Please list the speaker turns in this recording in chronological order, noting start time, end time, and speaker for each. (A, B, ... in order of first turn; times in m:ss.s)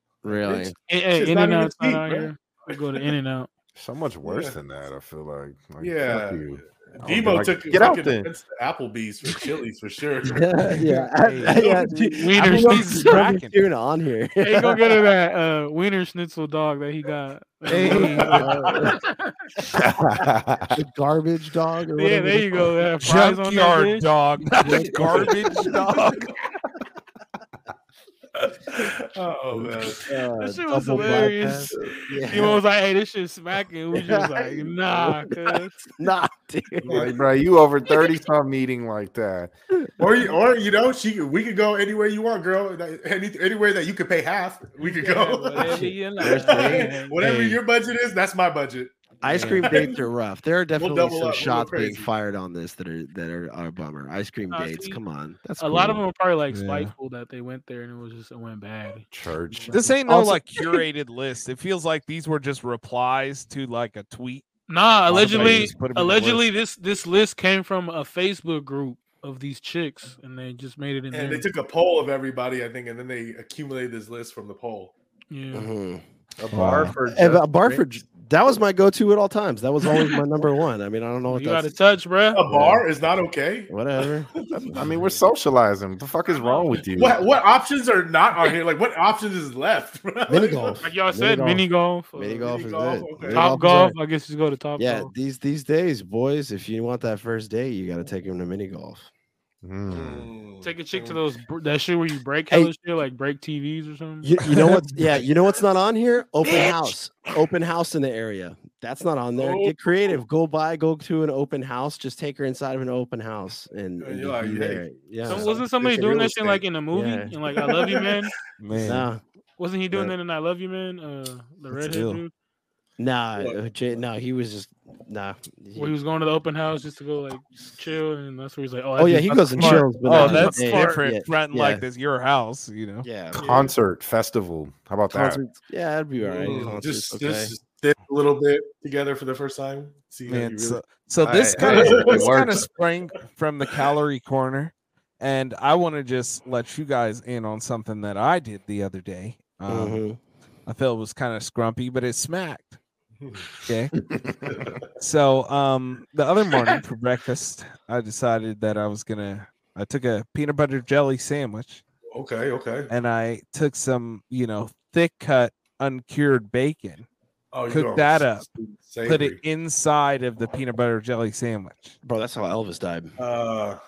0:00.2-0:00.7 A
0:00.2-0:03.1 B
0:00.9-0:03.5 C
0:03.8-0:08.3 D
0:04.2-0:04.6 B
0:05.8-0:10.5 B
0:10.3-0:15.0 A
0:10.7-0:11.6 E
0:11.6-0:11.9 B
0:11.6-0:13.2 C
0:12.3-0:13.6 E
0:14.4-0:19.3 C
0:17.7-0:18.4 E
0:18.1-0:18.9 B
0:18.3-0:19.0 A
0:19.7-0:20.8 D
0:20.7-0:22.7 A
0:22.0-0:24.0 C
0:23.0-0:26.3 E
0:24.6-0:25.4 A
0:28.3-0:30.1 B
0:30.0-0:32.6 A
0:30.4-0:31.8 C
0:32.3-0:35.7 C
0:33.9-0:37.1 A
0:36.8-0:37.2 B
0:36.9-0:39.5 D
0:40.0-0:48.9 B
0:44.8-0:47.2 C
0:45.6-0:46.9 A
0:47.2-0:47.6 E
0:49.2-0:56.0 A
0:49.3-0:49.8 E
0:49.6-0:50.0 B
0:50.8-0:52.1 B
0:54.5-0:55.0 C
0:55.6-0:59.8 C
0:56.5-0:56.9 E
0:59.1-0:59.9 D
0:59.7-1:04.4 E
1:00.1-1:00.4 A
1:04.7-1:11.5 C
1:05.1-1:06.4 E
1:11.1-1:14.9 B
1:15.3-1:15.7 C
1:15.5-1:16.0 A
1:16.4-1:17.8 D
1:16.5-1:16.9 E
1:17.1-1:21.7 A
1:21.3-1:22.4 C
1:22.3-1:24.9 B
1:22.5-1:22.8 A
1:23.7-1:24.9 A
1:24.5-1:27.2 D
1:26.3-1:26.8 C
1:26.9-1:30.8 B
1:30.3-1:34.0 A
1:30.8-1:32.5 C
1:32.4-1:33.6 B
1:33.3-1:35.1 C
1:34.8-1:39.1 A
1:39.6-1:40.3 D
1:39.9-1:41.2 B
1:40.6-1:44.3 C
1:44.2-1:57.3 A
1:49.4-1:50.2 B
1:54.0-1:55.6 B
1:55.2-1:58.3 C
1:57.6-1:58.3 B
1:58.6-1:59.1 E
1:58.8-1:59.2 A
1:59.6-2:02.3 C
2:01.7-2:02.2 E
2:03.0-2:05.9 A
2:05.8-2:11.0 C
2:09.0-2:11.8 A
2:09.6-2:13.0 E
2:13.0-2:13.4 A
2:13.3-2:15.4 D
2:13.4-2:13.7 C
2:15.1-2:17.5 A
2:16.2-2:20.8 B
2:20.3-2:30.0 E
2:21.2-2:22.6 D
2:21.6-2:22.5 B
2:29.7-2:30.2 A
2:30.7-2:32.8 E
2:33.2-2:33.4 B
2:33.6-2:33.9 E
2:34.1-2:34.7 D
2:34.5-2:34.8 B
2:35.0-2:41.8 E
2:42.1-2:42.9 B
2:42.9-2:47.1 E
2:47.5-2:49.4 B
2:47.7-2:48.5 E
2:49.0-2:52.0 E
2:52.0-2:53.1 A
2:53.2-2:53.8 B